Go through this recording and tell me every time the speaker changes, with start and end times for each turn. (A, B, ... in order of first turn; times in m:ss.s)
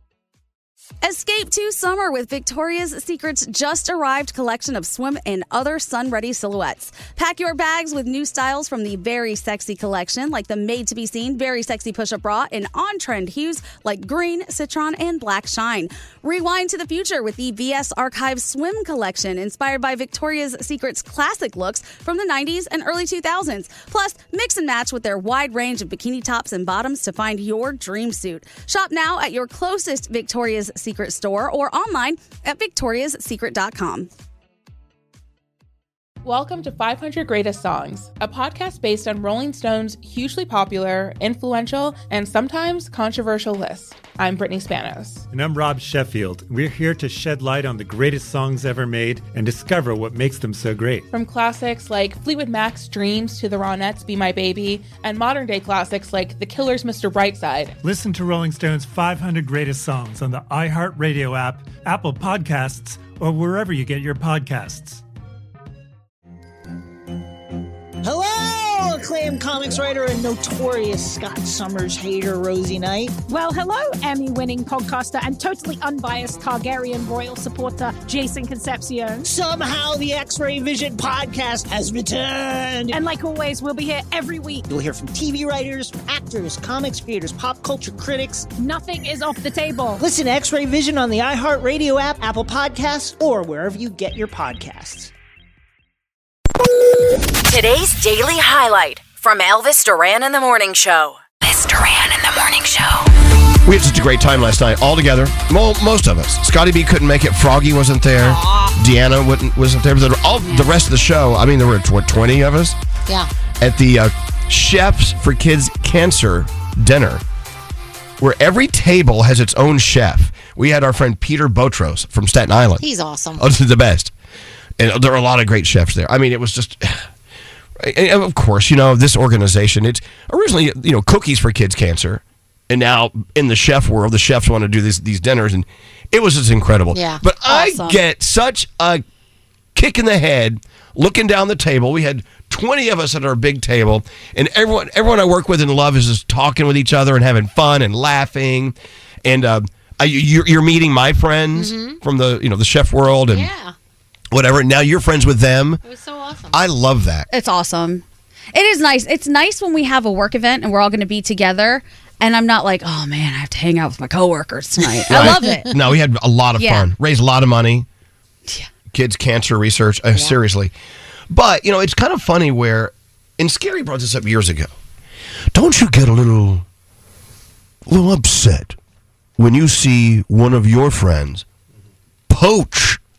0:01.0-0:34.1 A
0:36.2-0:45.2 B
0:45.3-0:51.1 C
0:51.1-0:57.7 B
0:57.8-1:05.0 C
1:08.0-1:13.1 D
1:13.3-1:19.3 E
1:20.2-1:22.8 D
1:22.9-1:24.6 E
1:24.8-1:28.4 D
1:28.6-1:30.0 E
1:30.1-1:35.1 D
1:37.5-1:43.0 F
1:43.6-1:52.8 G
1:53.6-1:57.2 G
1:58.2-2:04.1 G
2:02.8-2:03.4 H
2:04.8-2:07.1 G
2:07.8-2:19.0 G
2:16.9-2:17.2 H
2:17.4-2:18.0 A
2:19.7-2:33.5 G
2:31.5-2:32.0 H
2:33.3-2:33.7 H
2:34.3-2:35.8 G
2:35.8-2:36.6 H
2:36.5-2:37.3 G
2:37.3-2:45.7 A
2:45.1-2:47.8 G
2:46.6-2:46.9 A
2:48.9-2:50.7 G
2:51.3-2:54.7 G
2:55.5-2:56.6 G
2:57.9-2:58.8 G
2:59.4-3:01.4 G
3:02.3-3:03.0 G